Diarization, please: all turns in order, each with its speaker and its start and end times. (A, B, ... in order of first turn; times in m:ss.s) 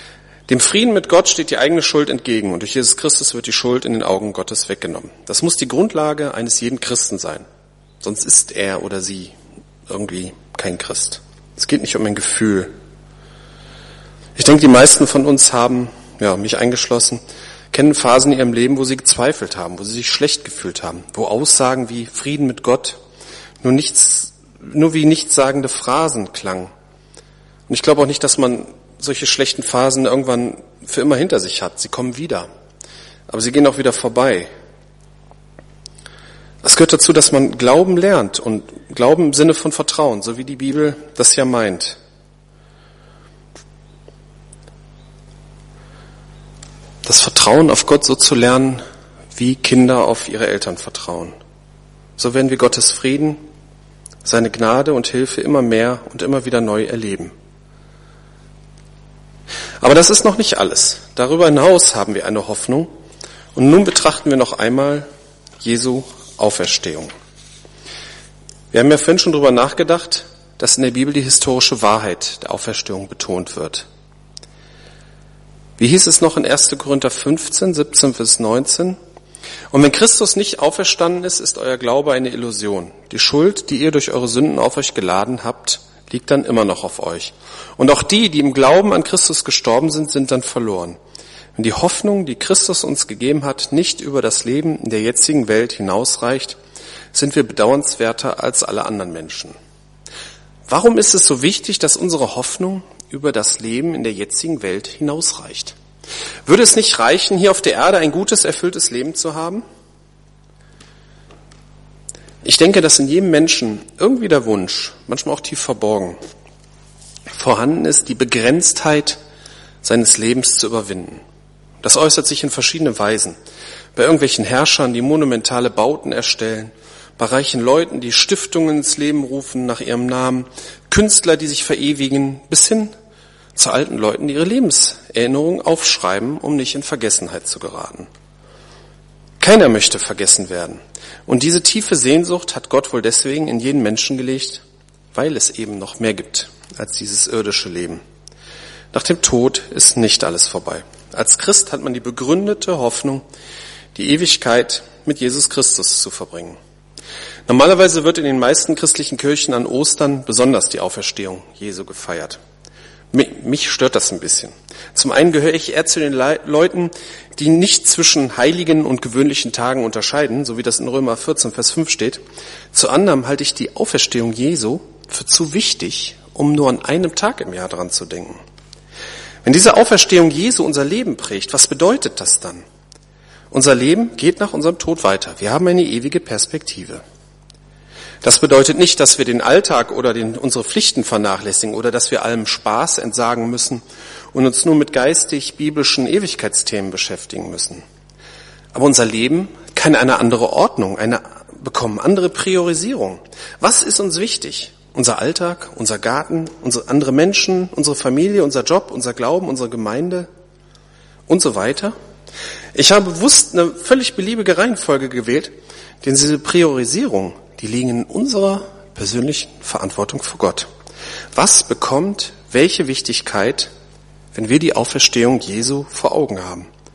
0:00.5-0:07.4 A
0:08.0-0:09.4 A
0:09.9-0:12.7 A
0:14.4-0:17.2 A
0:17.7-0:23.0 A
0:23.6-0:26.7 A
0:27.7-0:32.5 A
0:33.3-0:34.5 A
0:36.6-0:42.0 A
0:47.0-0:48.8 A
0:49.4-0:51.4 A
0:52.2-0:53.4 A
0:54.2-0:57.3 A
0:59.8-1:02.9 A
1:03.6-1:05.1 A
1:05.6-1:07.1 A
1:08.7-1:13.9 A
1:15.8-1:19.0 A
1:19.7-1:31.0 A
1:31.6-1:36.6 A
1:37.1-1:39.6 A
1:40.7-1:45.8 A
1:46.5-1:49.6 A
1:52.4-1:56.2 A
1:57.3-1:59.2 A
1:59.8-2:01.2 A
2:01.8-2:03.4 A
2:04.0-2:12.9 A
2:13.6-2:18.1 A
2:19.4-2:28.0 A
2:28.9-2:33.2 A
2:34.0-2:36.6 A
2:37.5-2:42.4 A
2:43.1-2:52.2 A
2:52.7-2:58.4 A
2:59.4-3:02.6 A
3:03.5-3:07.0 A
3:08.2-3:17.8 A
3:18.7-3:30.3 A
3:31.3-3:31.9 A
3:32.7-3:40.7 A
3:41.4-3:43.7 A
3:44.3-3:46.7 A